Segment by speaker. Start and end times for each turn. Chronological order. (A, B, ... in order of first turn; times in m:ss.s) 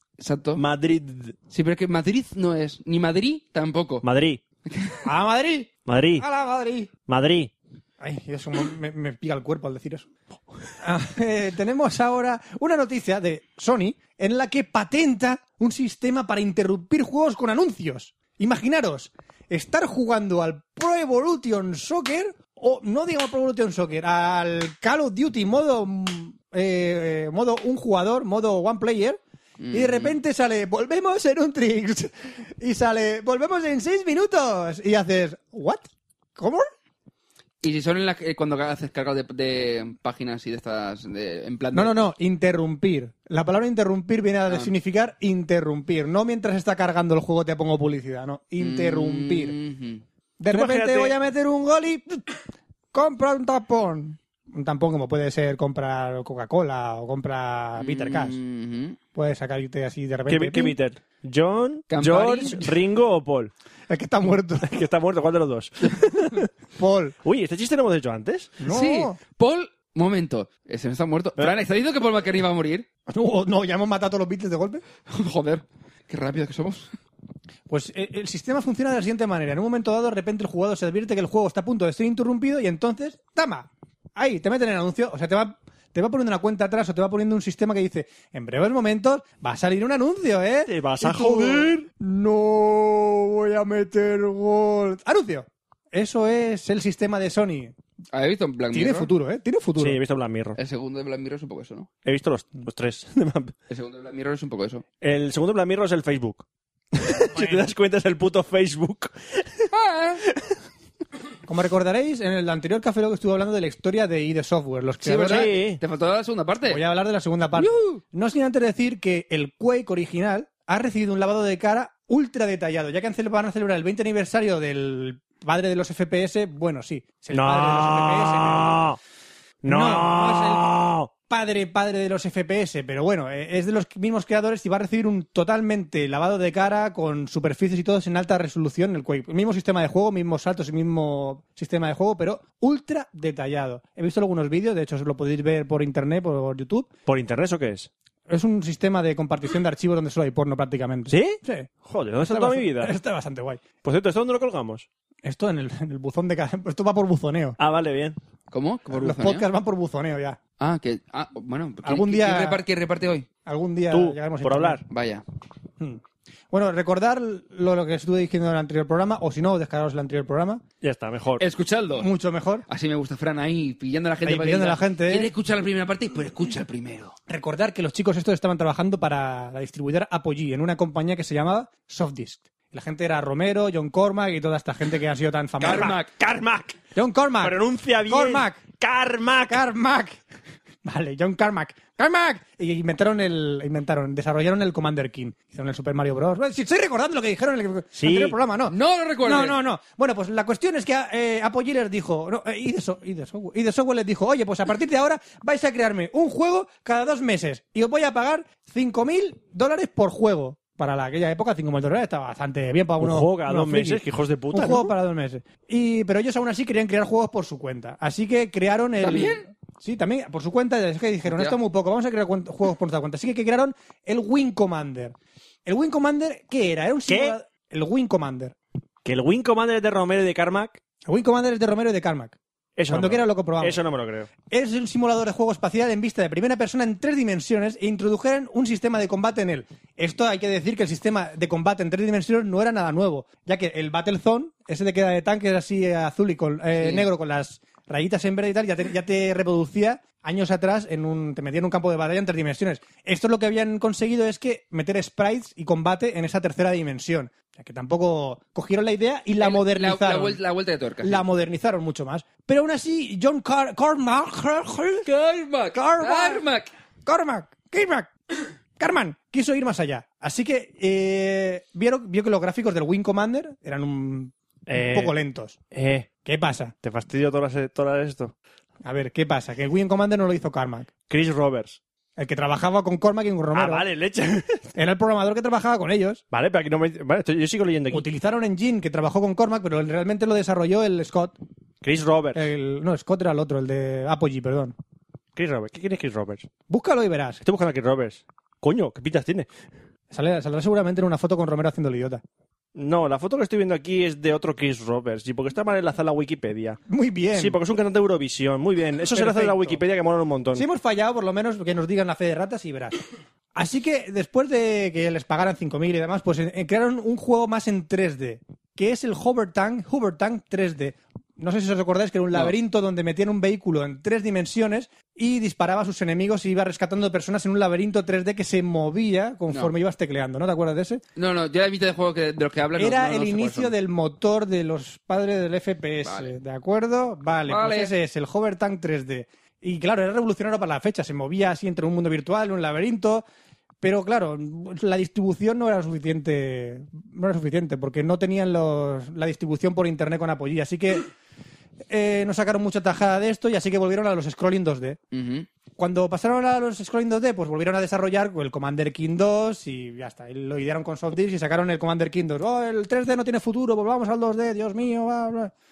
0:00.2-0:00.6 A
0:00.6-0:01.4 B
0:01.5-0:04.0 A
0:04.0-0:04.4 B
0:04.7-0:05.0 A
0:05.0-0:06.9 C
0:05.9-0:06.3 B
0:07.1-0:07.5 B
0:08.0-0:10.1 C
0:10.8-0:29.2 C
0:29.6-0:30.2 A
0:29.7-0:36.7 C
0:37.6-0:42.1 A
0:41.7-0:49.6 C
0:48.6-0:50.0 A
0:50.4-0:52.3 C
0:50.5-0:51.2 B
0:52.9-0:58.4 C
0:57.8-0:59.0 A
0:59.2-1:00.8 C
1:00.3-1:03.5 B
1:01.9-1:02.6 A
1:03.9-1:04.7 C
1:04.6-1:06.5 B
1:06.8-1:07.2 C
1:07.2-1:08.6 B
1:08.6-1:09.2 C
1:08.7-1:12.9 A
1:13.1-1:14.8 C
1:15.1-1:16.9 A
1:17.7-1:37.7 C
1:30.7-1:31.9 B
1:38.1-1:39.1 A
1:38.7-1:40.0 C
1:39.8-1:40.6 B
1:40.6-1:41.9 A
1:42.0-1:43.5 B
1:43.7-1:44.8 A
1:45.0-1:49.7 B
1:47.3-1:47.7 C
1:49.7-1:50.2 A
1:50.3-1:50.6 B
1:51.5-1:55.6 C
1:55.0-1:55.8 B
1:55.1-1:56.8 A
1:56.7-2:08.9 C
1:57.6-1:58.0 A
2:07.3-2:09.0 B
2:09.6-2:11.1 B
2:09.7-2:10.7 C
2:11.3-2:26.9 C
2:27.1-2:27.9 B
2:28.3-2:31.7 C
2:31.1-2:33.0 B
2:32.2-2:33.6 C
2:33.8-2:34.9 B
2:35.2-2:37.6 C
2:37.6-2:38.2 B
2:38.5-2:39.5 A
2:38.9-2:40.4 C
2:40.6-2:43.3 A
2:41.8-2:42.6 C
2:43.5-2:44.8 C
2:43.9-2:44.8 B
2:44.9-2:45.2 A
2:45.8-2:50.6 C
2:50.8-2:51.4 B
2:51.4-2:52.1 A
2:52.0-2:52.7 C
2:52.7-2:57.2 A
2:54.2-2:55.3 C
2:57.3-3:06.0 C
3:05.6-3:06.1 A
3:05.6-3:06.8 B
3:06.9-3:08.8 C
3:07.4-3:09.6 B
3:09.5-3:10.2 C
3:10.8-3:48.6 C
3:18.0-3:18.4 B
3:18.7-3:19.6 A
3:33.0-3:34.9 B
3:39.0-3:39.4 A
3:41.3-3:41.6 A
3:47.1-3:47.4 B
3:49.0-3:50.8 B
3:51.1-3:52.4 C
3:52.8-3:54.3 B
3:52.9-3:53.8 C
3:54.5-4:20.4 C
4:06.8-4:07.1 A
4:19.4-4:21.2 A
4:21.0-4:25.1 C
4:25.0-4:26.7 A
4:25.7-4:26.4 C
4:27.1-4:28.1 C
4:28.8-4:35.6 C
4:34.7-4:35.1 B
4:35.7-4:36.1 B
4:36.2-4:36.8 C
4:36.8-4:38.3 B
4:38.8-4:40.9 C
4:41.1-4:41.8 B
4:42.2-4:43.8 C
4:43.5-4:44.6 B
4:44.8-4:46.2 C
4:46.3-4:48.0 B
4:47.9-4:51.4 C
4:51.8-4:52.4 B
4:52.4-4:54.8 C
4:55.4-4:56.5 B
4:56.7-4:57.4 C
4:57.4-4:59.5 B
5:00.1-5:02.2 C
5:02.8-5:06.8 B
5:06.9-5:07.6 C
5:07.3-5:10.6 B
5:09.1-5:09.8 C
5:10.5-5:13.0 C
5:13.6-5:31.0 C
5:31.2-5:33.7 A
5:32.8-5:43.2 C
5:36.0-5:36.3 A
5:37.5-5:37.9 A
5:43.8-5:51.1 C
5:51.9-5:55.0 C
5:55.1-5:55.5 A
5:55.8-6:05.5 C